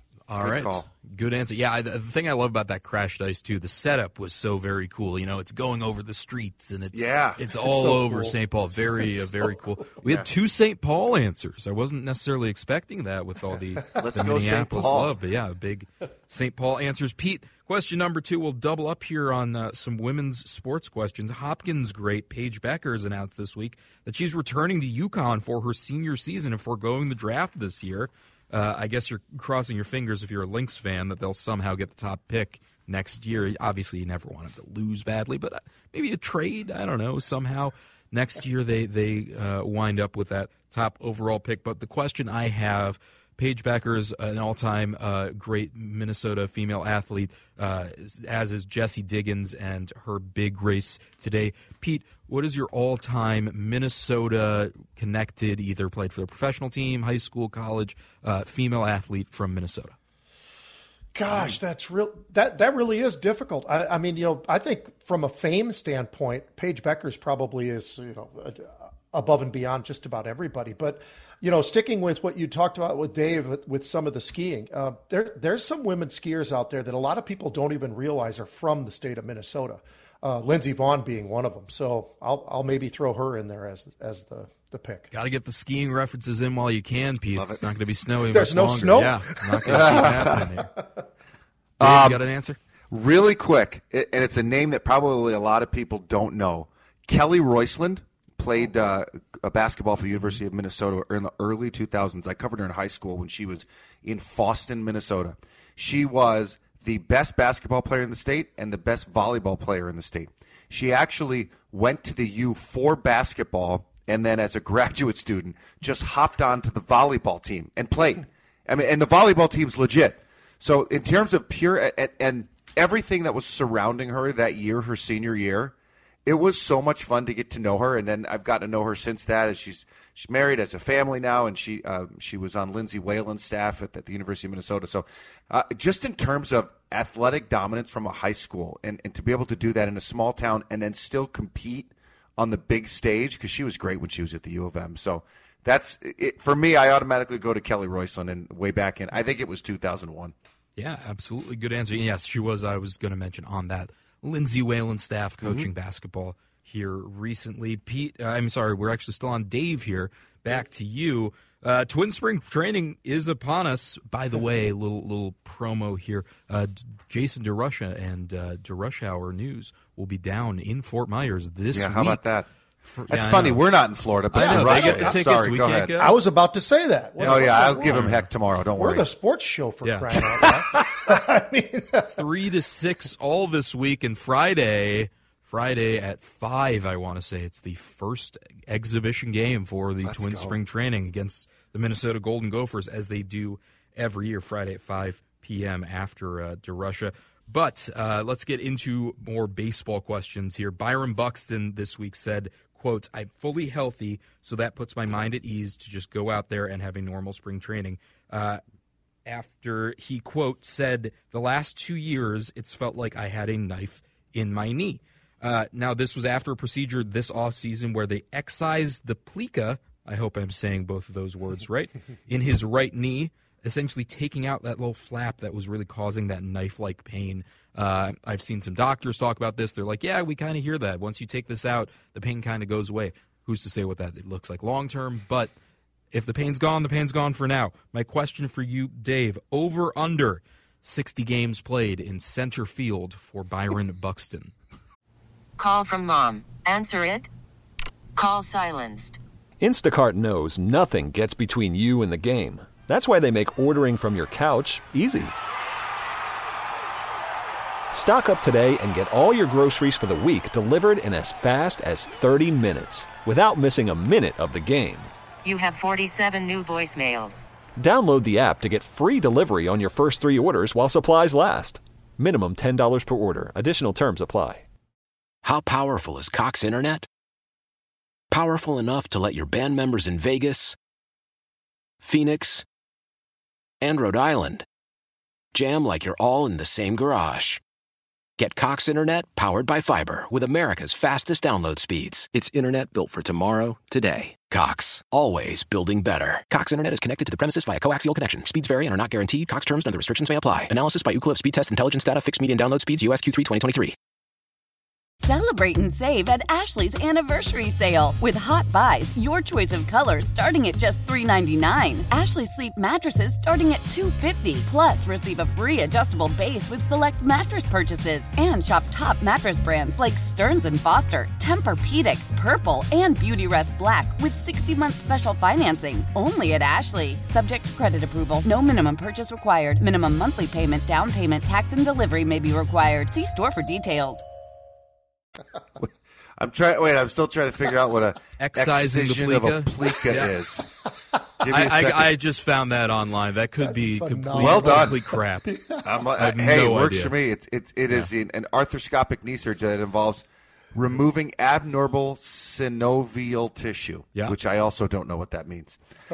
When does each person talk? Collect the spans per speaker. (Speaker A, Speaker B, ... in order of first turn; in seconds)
Speaker A: 0.3-59.9, 85.1-90.7, 91.8-92.6, 150.8-172.2, 172.8-173.6, 174.3-176.1, 177.2-178.3, 179.8-180.2, 182.2-208.6, 209.2-235.5, 236.1-244.5, 338.4-340.3, 341.4-345.5, 346.1-347.1
Speaker B: 0.4-0.8, 6.9-7.4, 14.0-15.1, 87.3-87.6, 89.7-90.4, 91.8-92.2, 92.9-125.7, 126.2-150.3, 155.4-155.7, 171.7-172.5, 173.1-175.9, 177.2-179.1, 190.0-190.6, 336.4-340.7, 341.4-342.1, 344.3-344.9, 345.8-355.8
Speaker C: 7.6-10.0, 61.1-85.1, 88.3-90.8, 174.3-175.3, 175.9-178.0, 178.7-182.2, 343.6-346.0
Speaker D: 245.6-247.3, 248.2-249.2, 265.4-267.4
Speaker E: 249.6-255.3, 257.9-265.1, 267.8-274.6
Speaker F: 275.4-277.1, 278.3-280.8, 282.0-282.6, 283.8-284.6, 285.5-287.6, 288.4-303.9
Speaker G: 305.2-334.2